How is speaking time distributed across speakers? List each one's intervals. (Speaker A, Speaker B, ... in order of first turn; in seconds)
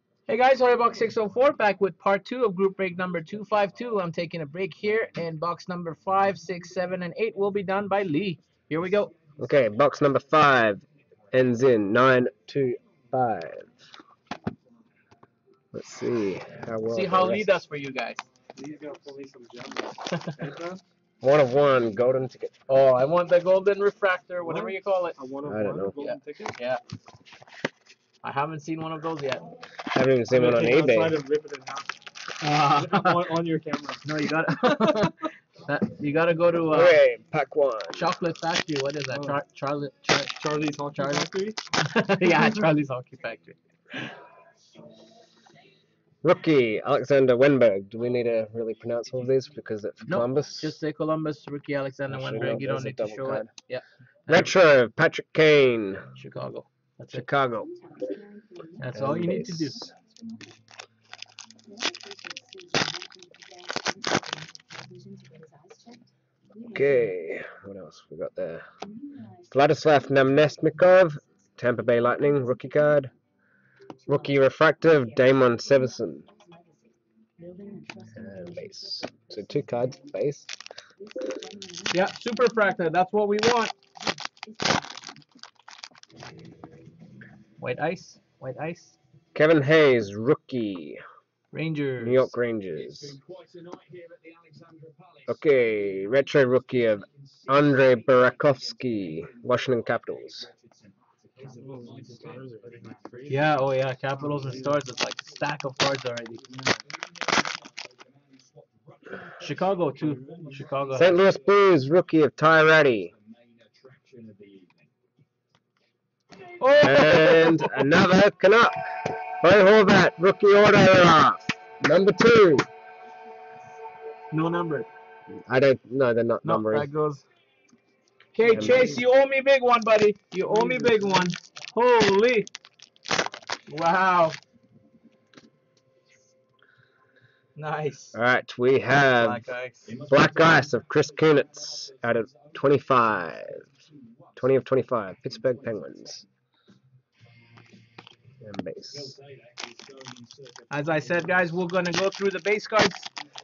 Speaker A: 0.3-9.1, 16.9-18.2, 20.1-20.4, 22.7-25.2, 26.0-26.8, 28.2-29.5, 32.4-33.4, 34.0-37.0, 37.9-43.6, 50.1-54.5, 56.2-57.3, 58.8-59.8, 81.9-83.7, 87.6-89.0, 91.5-92.3, 103.3-106.5, 109.4-111.2, 116.6-117.8, 124.3-124.9, 126.4-127.2, 128.3-132.5, 133.7-134.4, 137.6-138.2, 139.2-139.9, 150.7-153.1
Speaker B: 9.4-13.7, 15.7-17.5, 21.2-22.6, 25.5-25.9, 29.9-31.2, 36.7-38.1, 46.2-50.8, 52.1-53.5, 54.3-56.1, 57.1-57.7, 58.9-59.9, 66.7-68.6, 69.5-73.1, 74.1-76.3, 78.1-80.5, 89.3-91.0, 92.0-93.2, 95.3-100.5, 110.9-113.1, 116.8-118.8, 119.4-122.7, 125.5-126.8, 128.5-129.0, 138.1-139.4, 140.1-143.6, 144.4-146.3, 148.4-149.2
Speaker C: 18.5-20.8, 24.4-26.6, 30.3-32.0, 32.7-34.2, 39.1-39.4, 40.3-41.6, 101.4-103.5, 104.2-104.8, 106.5-106.8, 110.0-111.0, 128.5-129.0, 130.5-131.4